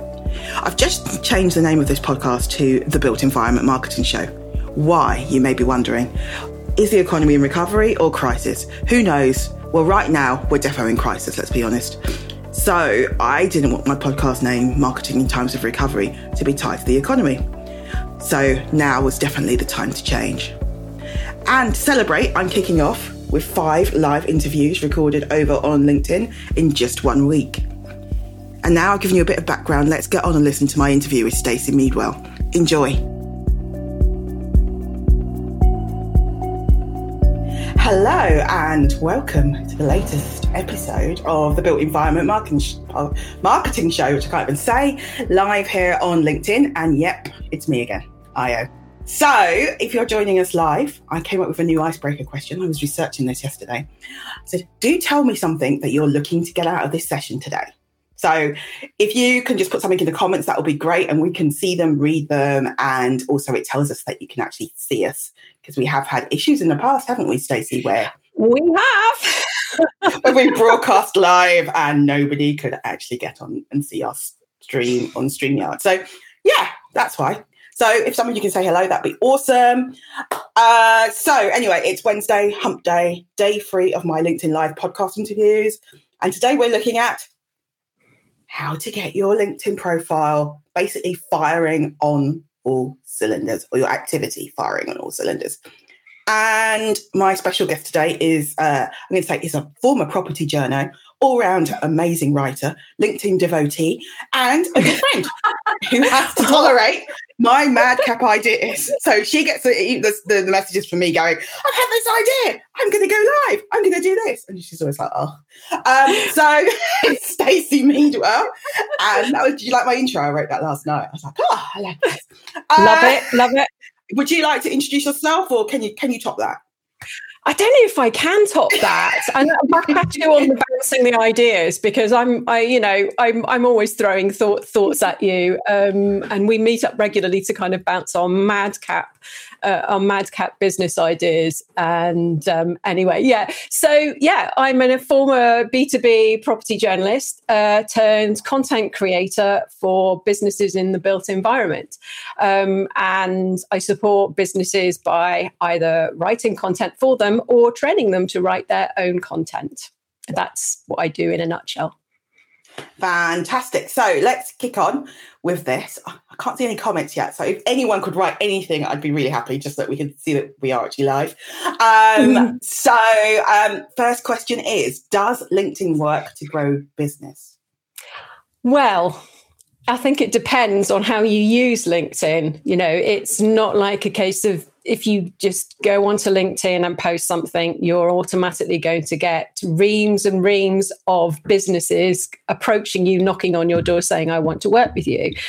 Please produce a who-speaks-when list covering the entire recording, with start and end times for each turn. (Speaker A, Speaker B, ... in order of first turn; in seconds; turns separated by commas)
Speaker A: 0.6-6.1, Speaker A: 6.8-17.4, Speaker A: 18.2-20.6, Speaker A: 21.5-27.6, Speaker A: 28.6-33.0, Speaker A: 37.8-53.9, Speaker A: 54.5-68.1, Speaker B: 68.3-70.3, Speaker A: 70.0-80.0, Speaker A: 80.6-87.3, Speaker A: 88.5-95.6, Speaker A: 96.3-123.3, Speaker B: 122.8-123.7, Speaker A: 124.1-126.6, Speaker B: 127.4-161.9, Speaker A: 163.0-177.5, Speaker B: 172.2-172.5, Speaker B: 178.6-179.2, Speaker B: 179.9-195.3